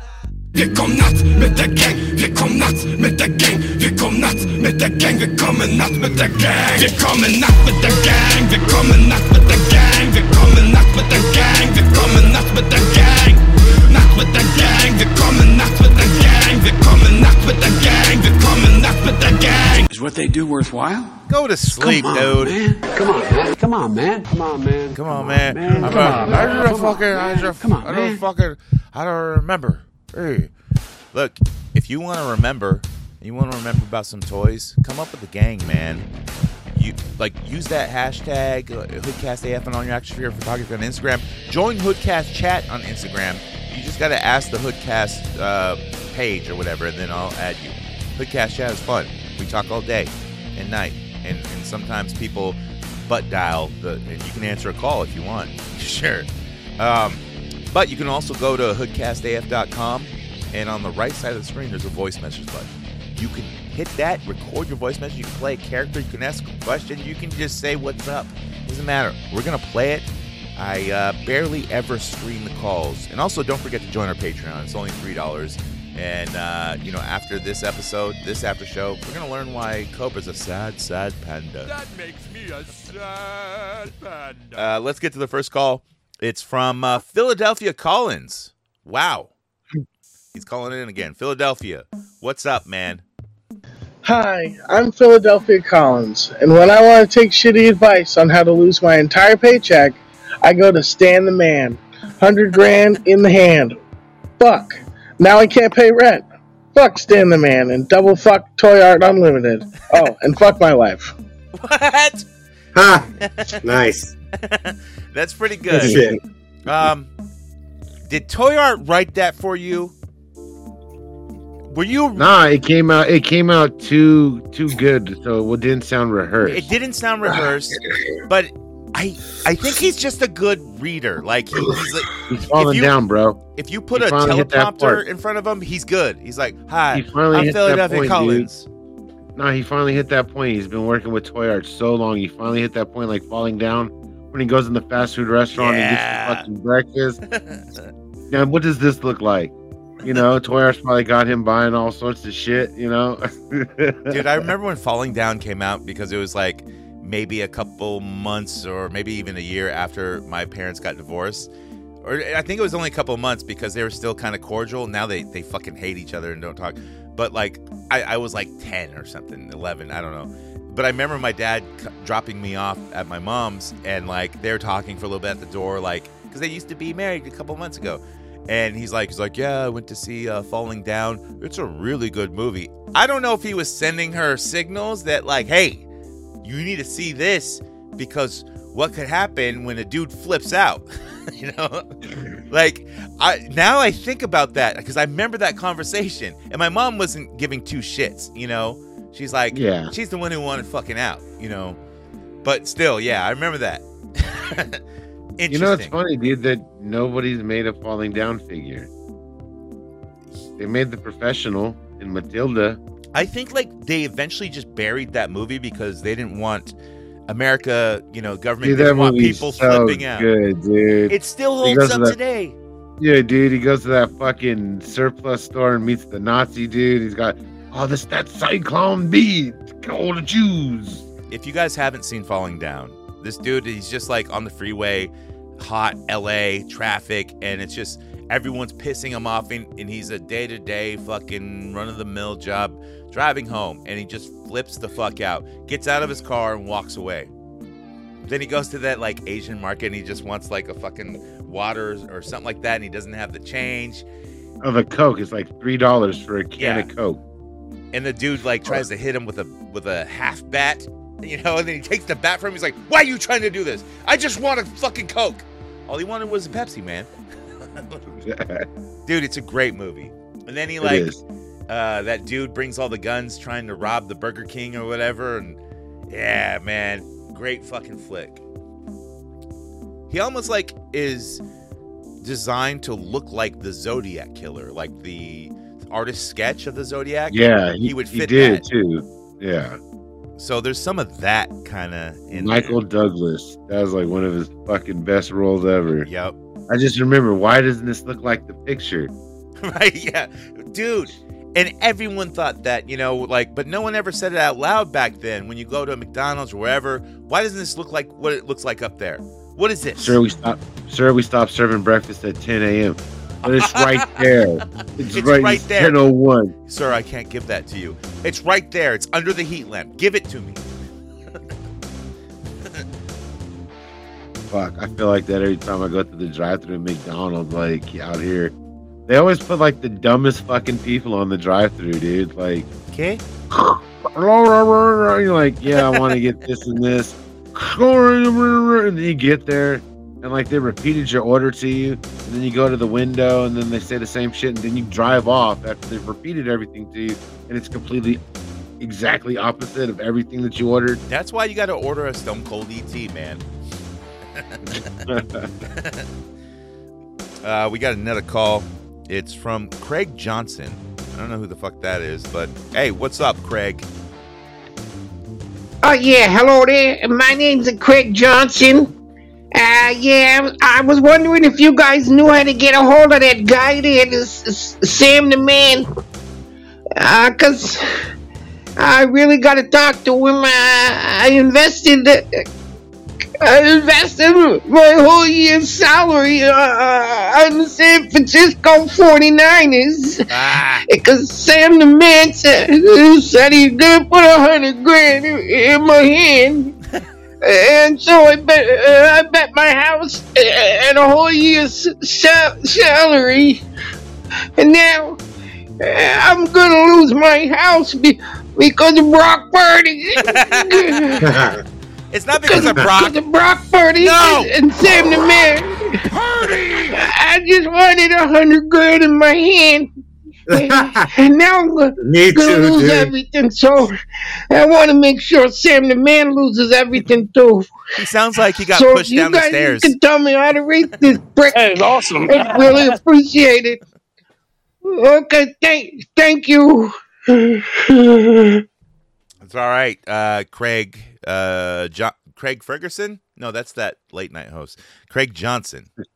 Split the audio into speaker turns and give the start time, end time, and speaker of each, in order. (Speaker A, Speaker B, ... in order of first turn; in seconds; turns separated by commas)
Speaker A: 0.5-19.8, Speaker B: 19.9-28.2, Speaker C: 21.3-22.6, Speaker C: 24.9-30.5, Speaker C: 31.1-36.1, Speaker C: 36.7-56.3, Speaker C: 56.8-81.7, Speaker D: 81.6-84.7, Speaker C: 84.5-89.3, Speaker C: 90.3-93.0, Speaker E: 94.0-103.8, Speaker E: 104.4-111.1, Speaker C: 111.5-112.2, Speaker F: 112.7-114.1, Speaker C: 113.2-113.8, Speaker C: 114.4-116.0, Speaker G: 115.7-116.1, Speaker F: 115.8-116.2, Speaker C: 116.7-117.1, Speaker C: 118.1-119.9, Speaker C: 121.7-122.3, Speaker G: 122.1-126.7, Speaker C: 126.4-132.9, Speaker G: 132.3-133.4, Speaker C: 133.5-138.7, Speaker G: 133.9-135.0, Speaker G: 136.9-138.5, Speaker G: 139.3-147.2, Speaker C: 145.5-146.5, Speaker C: 147.3-147.9, Speaker G: 148.3-154.4, Speaker C: 154.1-161.5, Speaker C: 162.0-185.8, Speaker C: 186.4-191.8, Speaker C: 192.5-201.8, Speaker G: 199.5-199.9, Speaker C: 202.4-204.8, Speaker C: 205.4-206.0, Speaker G: 205.5-208.9, Speaker G: 210.6-212.8, Speaker C: 213.1-216.8, Speaker C: 217.3-220.3, Speaker G: 218.6-222.2, Speaker C: 221.1-222.6, Speaker G: 223.0-231.0, Speaker C: 231.3-247.3, Speaker C: 248.2-254.0, Speaker G: 254.6-257.2, Speaker C: 256.6-256.9, Speaker C: 257.9-267.1, Speaker G: 258.6-258.9, Speaker C: 267.8-268.0, Speaker G: 268.2-268.7, Speaker C: 269.1-271.1, Speaker G: 270.8-271.2, Speaker C: 271.7-278.4, Speaker C: 280.1-281.4, Speaker C: 282.2-288.6, Speaker G: 287.3-289.8, Speaker C: 290.4-292.8, Speaker G: 292.3-296.1, Speaker C: 296.0-296.4, Speaker G: 296.7-299.1, Speaker C: 299.6-310.2, Speaker G: 310.0-316.5, Speaker C: 313.4-314.3, Speaker C: 315.1-316.0, Speaker C: 316.6-320.6, Speaker G: 324.5-328.5, Speaker G: 329.1-332.7, Speaker C: 332.9-333.2, Speaker G: 333.5-348.2, Speaker G: 348.8-351.0, Speaker C: 351.1-353.4, Speaker C: 354.3-355.1, Speaker G: 355.1-355.5, Speaker C: 355.6-356.1, Speaker C: 357.4-363.9, Speaker H: 365.8-368.9, Speaker H: 369.5-375.8, Speaker H: 377.0-377.8, Speaker H: 378.8-382.3, Speaker H: 383.4-396.8, Speaker C: 390.3-390.9, Speaker H: 397.4-403.6, Speaker H: 404.6-405.2, Speaker H: 405.8-411.3, Speaker C: 410.2-411.5, Speaker F: 411.2-411.6, Speaker C: 412.1-413.1, Speaker H: 412.4-416.0, Speaker F: 412.6-412.9, Speaker C: 414.0-414.5, Speaker H: 416.9-419.9, Speaker F: 420.5-421.1, Speaker H: 420.5-423.9, Speaker F: 422.0-423.1, Speaker H: 424.5-427.7, Speaker C: 427.9-429.9, Speaker H: 428.7-433.8, Speaker H: 434.8-437.6, Speaker C: 439.4-445.9